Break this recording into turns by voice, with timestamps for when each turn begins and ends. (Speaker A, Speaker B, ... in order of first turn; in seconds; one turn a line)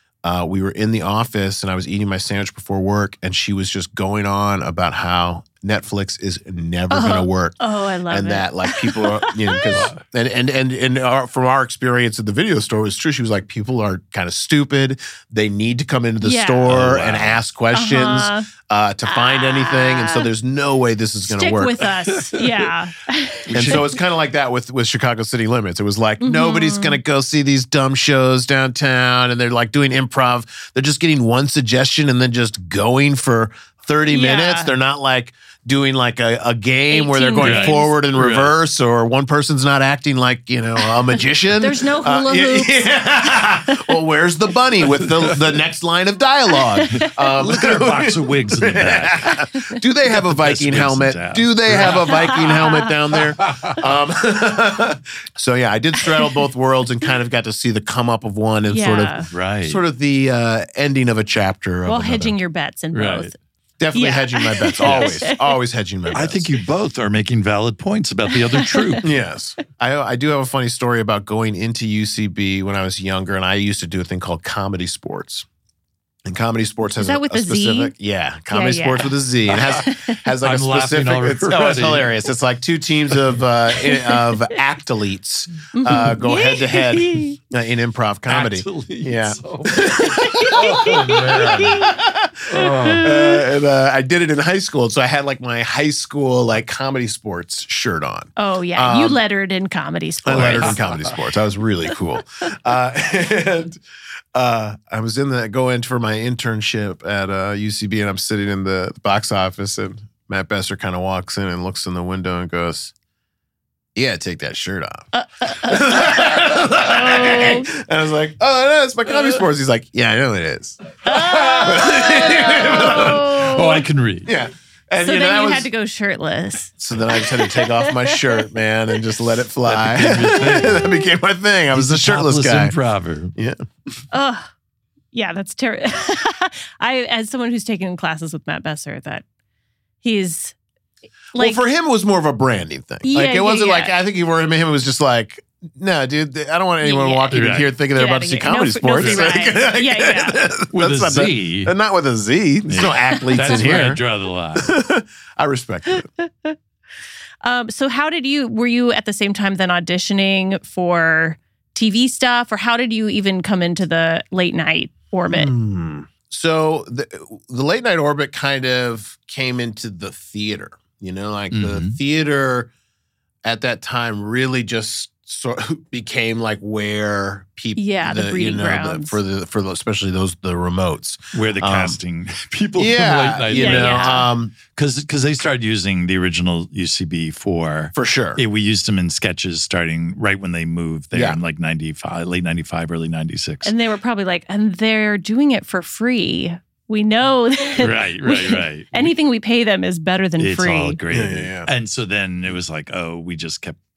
Speaker A: 0.2-21.9
Speaker B: 6.9-9.8
Speaker C: 9.7-10.0
Speaker B: 16.2-16.7
Speaker C: 16.7-17.4
Speaker B: 17.7-18.5
Speaker B: 19.0-20.3
Speaker B: 21.2-23.8
Speaker A: 23.5-62.4
Speaker C: 23.5-23.9
Speaker B: 26.2-27.0
Speaker B: 34.1-34.7
Speaker B: 36.9-38.0
Speaker C: 37.4-38.5
Speaker B: 41.6-44.0
Speaker C: 44.9-45.5
Speaker B: 46.8-47.1
Speaker C: 46.9-49.4
Speaker C: 50.1-52.5
Speaker B: 51.9-52.9
Speaker C: 53.1-53.8
Speaker B: 58.7-59.3
Speaker C: 59.3-59.8
Speaker B: 61.9-63.3
Speaker C: 62.9-63.3
Speaker A: 63.8-66.5
Speaker B: 63.9-65.5
Speaker C: 64.8-65.1
Speaker C: 66.1-69.1
Speaker B: 68.5-69.0
Speaker A: 69.0-75.5
Speaker A: 76.2-99.2
Speaker B: 77.0-77.9
Speaker B: 78.5-80.2
Speaker C: 80.4-82.2
Speaker B: 83.9-84.3
Speaker B: 85.7-87.3
Speaker C: 88.3-91.9
Speaker B: 89.8-91.9
Speaker C: 92.5-93.1
Speaker B: 92.6-93.3
Speaker B: 98.4-100.8
Speaker A: 100.2-103.8
Speaker C: 100.4-101.2
Speaker A: 104.3-112.9
Speaker A: 113.9-120.8
Speaker B: 115.1-117.7
Speaker B: 121.0-123.8
Speaker C: 121.0-121.9
Speaker A: 121.6-123.2
Speaker C: 122.7-124.3
Speaker A: 124.2-125.7
Speaker B: 125.0-128.5
Speaker A: 126.8-132.8
Speaker C: 129.6-130.9
Speaker C: 131.7-133.3
Speaker A: 133.3-133.6
Speaker B: 134.1-134.5
Speaker B: 135.1-139.2
Speaker B: 140.0-140.5
Speaker B: 141.3-141.6
Speaker A: 141.3-154.0
Speaker B: 143.0-143.9
Speaker B: 146.8-150.4
Speaker C: 147.3-147.7
Speaker C: 149.0-149.2
Speaker C: 150.7-151.7
Speaker C: 152.7-154.8
Speaker B: 153.1-153.8
Speaker A: 154.5-156.1
Speaker B: 155.9-156.6
Speaker B: 157.4-165.5
Speaker A: 165.3-172.7
Speaker C: 171.5-172.0
Speaker A: 173.4-182.0
Speaker B: 177.8-179.2
Speaker C: 181.3-184.2
Speaker A: 182.8-184.6
Speaker B: 183.5-184.2
Speaker C: 184.7-193.7
Speaker A: 187.9-188.4
Speaker A: 191.1-191.4
Speaker B: 193.6-201.0
Speaker C: 197.8-199.1
Speaker C: 200.4-203.8
Speaker A: 201.1-201.7